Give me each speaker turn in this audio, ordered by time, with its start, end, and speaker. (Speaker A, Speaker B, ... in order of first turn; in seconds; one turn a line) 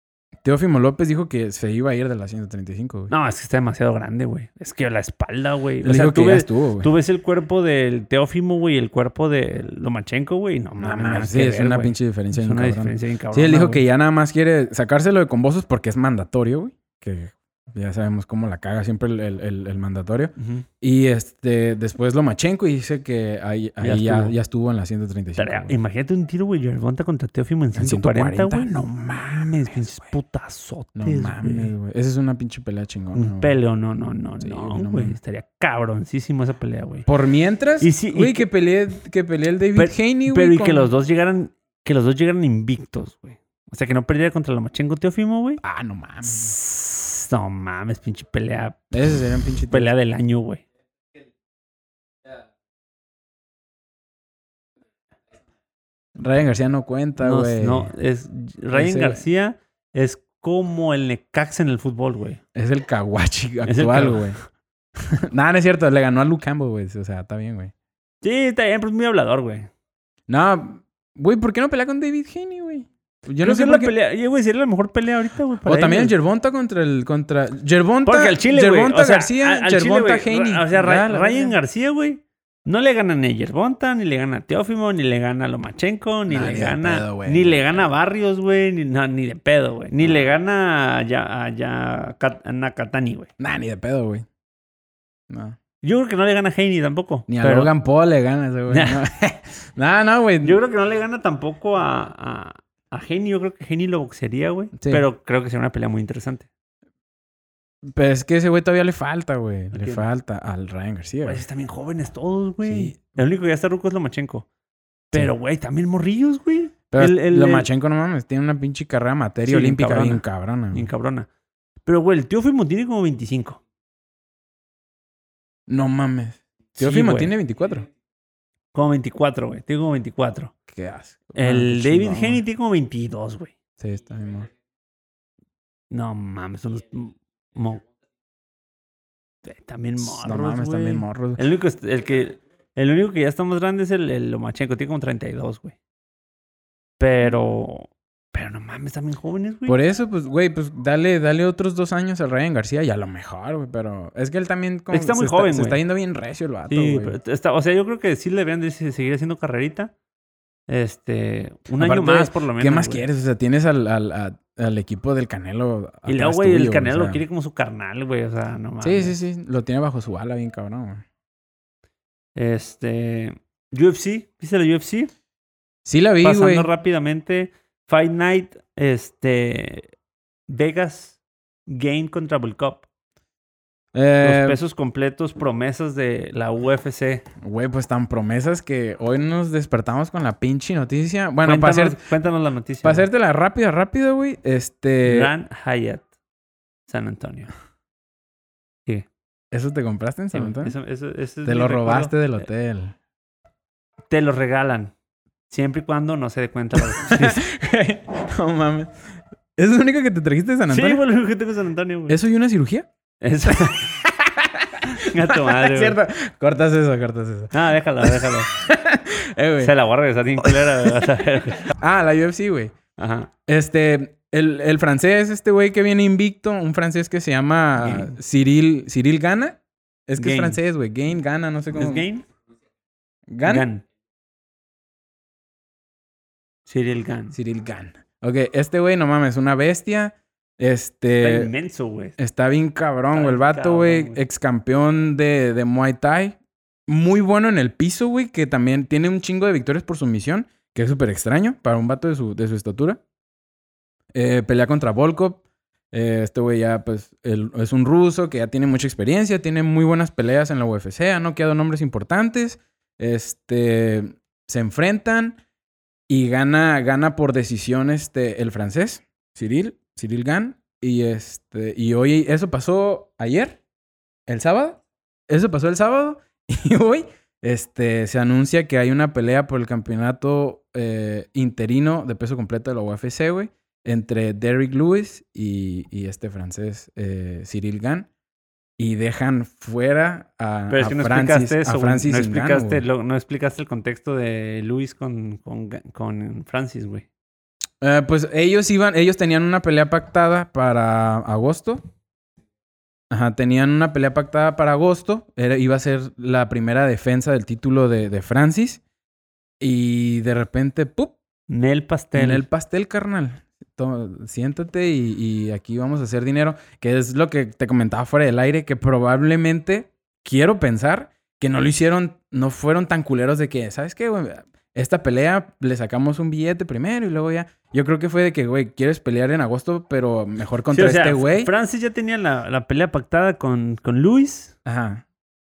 Speaker A: 0.4-3.1
Speaker B: 3.1-13.8
Speaker A: 5.8-6.9
Speaker A: 10.8-25.8
Speaker B: 20.4-20.7
Speaker B: 23.8-24.4
Speaker B: 25.4-31.7
Speaker A: 27.8-30.1
Speaker A: 31.0-33.5
Speaker B: 33.1-37.1
Speaker A: 34.4-35.2
Speaker A: 37.1-40.9
Speaker B: 37.8-38.5
Speaker B: 39.8-45.6
Speaker A: 45.6-46.5
Speaker B: 46.2-48.9
Speaker A: 48.9-49.9
Speaker B: 49.7-50.6
Speaker A: 56.2-57.9
Speaker B: 57.2-62.4
Speaker A: 58.7-59.2
Speaker A: 62.5-64.4
Speaker B: 63.6-64.3
Speaker A: 65.0-67.7
Speaker B: 68.2-69.7
Speaker A: 70.3-73.9
Speaker B: 73.4-76.1
Speaker A: 75.7-81.6
Speaker B: 78.1-93.3
Speaker A: 86.3-87.6
Speaker A: 93.4-94.3
Speaker A: 95.3-95.6
Speaker B: 95.8-97.7
Speaker A: 97.3-100.6
Speaker B: 98.7-99.0
Speaker B: 100.4-106.5
Speaker A: 104.8-105.0
Speaker A: 107.9-111.4
Speaker B: 109.7-110.0
Speaker B: 111.2-114.5
Speaker A: 112.6-113.0
Speaker B: 115.1-117.7
Speaker A: 116.9-120.9
Speaker B: 119.5-121.3
Speaker B: 121.9-123.6
Speaker A: 125.7-127.9
Speaker B: 126.8-127.3
Speaker B: 128.7-130.5
Speaker A: 130.7-132.4
Speaker B: 131.4-133.5
Speaker A: 133.8-134.5
Speaker B: 135.9-137.9
Speaker B: 139.4-145.8
Speaker A: 140.0-141.4
Speaker B: 147.0-149.8
Speaker A: 149.7-157.2
Speaker B: 154.9-155.8
Speaker B: 156.7-159.9
Speaker B: 160.7-163.1
Speaker A: 161.8-167.2
Speaker B: 166.1-169.2
Speaker A: 168.8-171.0
Speaker B: 172.4-175.1
Speaker A: 175.8-176.7
Speaker B: 176.2-179.9
Speaker B: 180.5-182.9
Speaker A: 183.9-184.6
Speaker B: 184.2-187.2
Speaker A: 187.4-192.0
Speaker B: 191.4-193.1
Speaker A: 192.8-195.3
Speaker B: 195.0-196.1
Speaker B: 196.9-197.5
Speaker A: 199.5-200.8
Speaker B: 200.3-202.2
Speaker A: 201.4-203.0
Speaker B: 204.1-204.9
Speaker B: 205.5-207.5
Speaker A: 206.9-208.9
Speaker A: 209.6-211.0
Speaker B: 210.7-212.2
Speaker A: 212.1-212.9
Speaker B: 213.2-213.9
Speaker A: 213.4-219.7
Speaker B: 214.9-216.0
Speaker B: 217.5-218.5
Speaker B: 219.6-221.7
Speaker A: 220.4-221.1
Speaker A: 221.7-222.8
Speaker B: 223.0-223.3
Speaker A: 223.5-232.1
Speaker B: 227.8-228.2
Speaker B: 230.2-230.6
Speaker B: 231.7-232.3
Speaker A: 233.3-233.7
Speaker B: 233.4-233.8
Speaker B: 236.7-237.4
Speaker A: 237.3-241.5
Speaker B: 241.2-242.2
Speaker A: 242.2-253.0
Speaker B: 243.1-244.2
Speaker A: 254.1-265.4
Speaker A: 266.1-273.6
Speaker A: 274.3-288.1
Speaker A: 288.8-292.8
Speaker B: 290.7-297.1
Speaker A: 297.8-301.8
Speaker A: 303.1-308.8
Speaker A: 309.6-311.2
Speaker B: 311.5-312.5
Speaker A: 312.1-331.5
Speaker B: 330.7-334.6
Speaker A: 334.7-335.0